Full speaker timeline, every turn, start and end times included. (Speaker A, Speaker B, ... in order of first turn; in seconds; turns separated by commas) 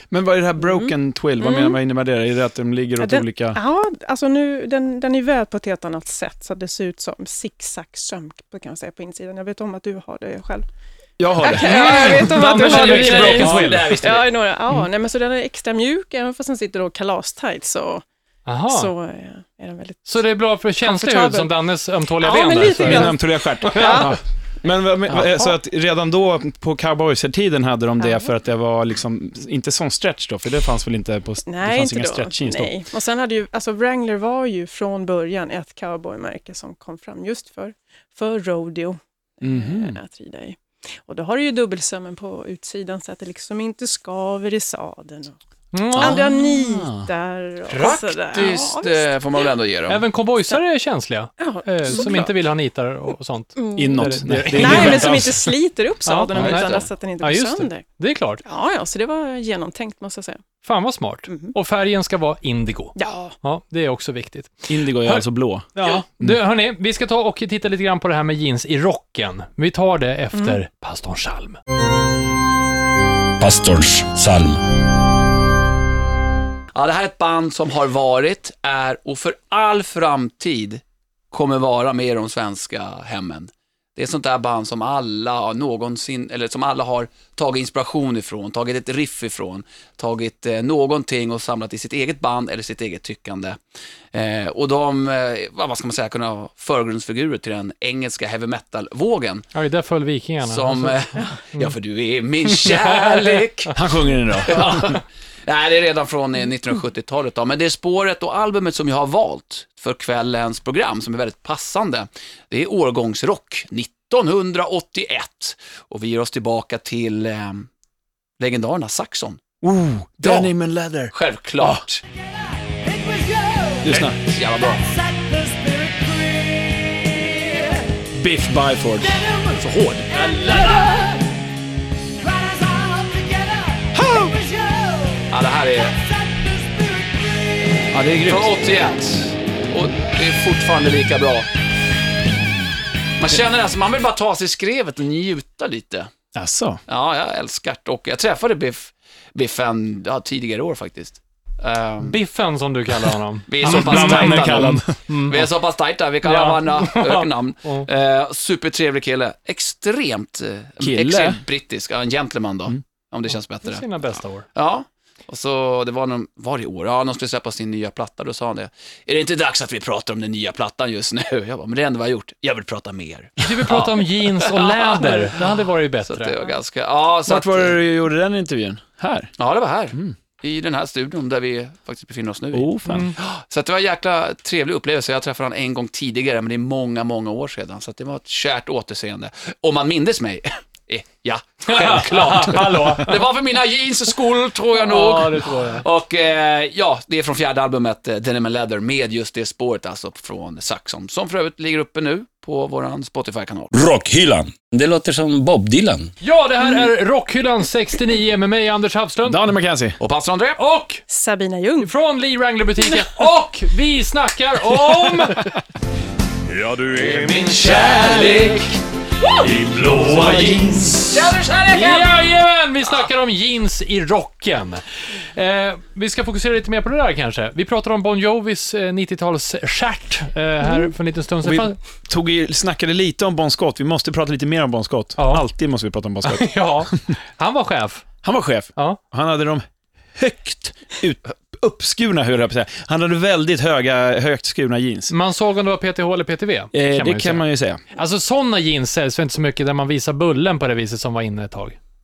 Speaker A: 0.1-3.6, Speaker B: 0.6-1.8, Speaker B: 3.0-10.7, Speaker A: 11.2-14.0, Speaker B: 11.4-18.0, Speaker C: 11.6-13.8, Speaker D: 11.9-14.3, Speaker C: 18.4-18.9, Speaker B: 18.7-20.2, Speaker C: 20.1-24.1, Speaker B: 20.8-21.5, Speaker B: 22.2-24.2, Speaker A: 22.7-32.7, Speaker B: 28.0-28.3, Speaker B: 31.4-45.4, Speaker A: 39.4-40.0, Speaker C: 45.7-46.3, Speaker B: 45.9-49.5, Speaker A: 46.0-47.1, Speaker D: 47.7-50.0, Speaker C: 49.9-55.4, Speaker B: 51.4-52.3, Speaker B: 53.5-57.8, Speaker A: 53.8-55.4, Speaker C: 56.0-58.4, Speaker A: 56.4-56.6, Speaker D: 56.5-56.8, Speaker B: 58.4-60.4, Speaker C: 60.6-65.2, Speaker B: 61.3-61.5, Speaker B: 63.0-63.4, Speaker A: 64.7-65.7, Speaker C: 65.7-71.6, Speaker B: 70.3-70.6, Speaker E: 73.4-74.6, Speaker D: 76.7-93.6, Speaker D: 94.1-99.5, Speaker C: 99.5-101.7, Speaker D: 100.4-103.8, Speaker C: 102.6-103.4, Speaker A: 103.7-105.0, Speaker D: 104.4-117.7, Speaker D: 118.4-119.4, Speaker A: 119.6-121.8, Speaker D: 120.2-120.5, Speaker D: 121.1-122.0, Speaker A: 123.8-124.2, Speaker D: 123.8-125.0, Speaker A: 128.1-129.2, Speaker D: 129.3-131.0, Speaker A: 133.9-134.5, Speaker D: 135.3-136.0, Speaker A: 137.9-138.6, Speaker D: 138.2-141.5, Speaker D: 143.2-146.1, Speaker A: 146.3-146.8, Speaker D: 146.9-152.2, Speaker C: 152.0-155.5, Speaker D: 153.5-177.8, Speaker A: 153.6-154.9, Speaker C: 156.2-157.9, Speaker A: 160.8-161.4, Speaker C: 163.6-164.5, Speaker C: 173.4-176.3, Speaker A: 177.2-179.3, Speaker D: 179.4-203.7, Speaker A: 182.5-183.1, Speaker C: 182.9-183.2, Speaker C: 191.7-193.3, Speaker C: 194.8-195.8, Speaker E: 203.7-206.1, Speaker C: 206.2-209.4, Speaker A: 209.2-210.0, Speaker D: 210.0-210.6, Speaker C: 210.6-211.0, Speaker B: 211.1-211.9, Speaker C: 211.8-215.5, Speaker E: 216.5-218.5, Speaker D: 217.0-218.8, Speaker E: 219.4-221.3, Speaker A: 220.1-220.9, Speaker D: 221.1-222.1, Speaker C: 221.7-231.8, Speaker A: 231.4-237.1, Speaker C: 235.2-235.4, Speaker C: 236.2-238.1, Speaker A: 238.2-239.6, Speaker A: 240.2-245.1, Speaker C: 245.1-247.4, Speaker A: 246.7-247.8, Speaker C: 247.9-251.8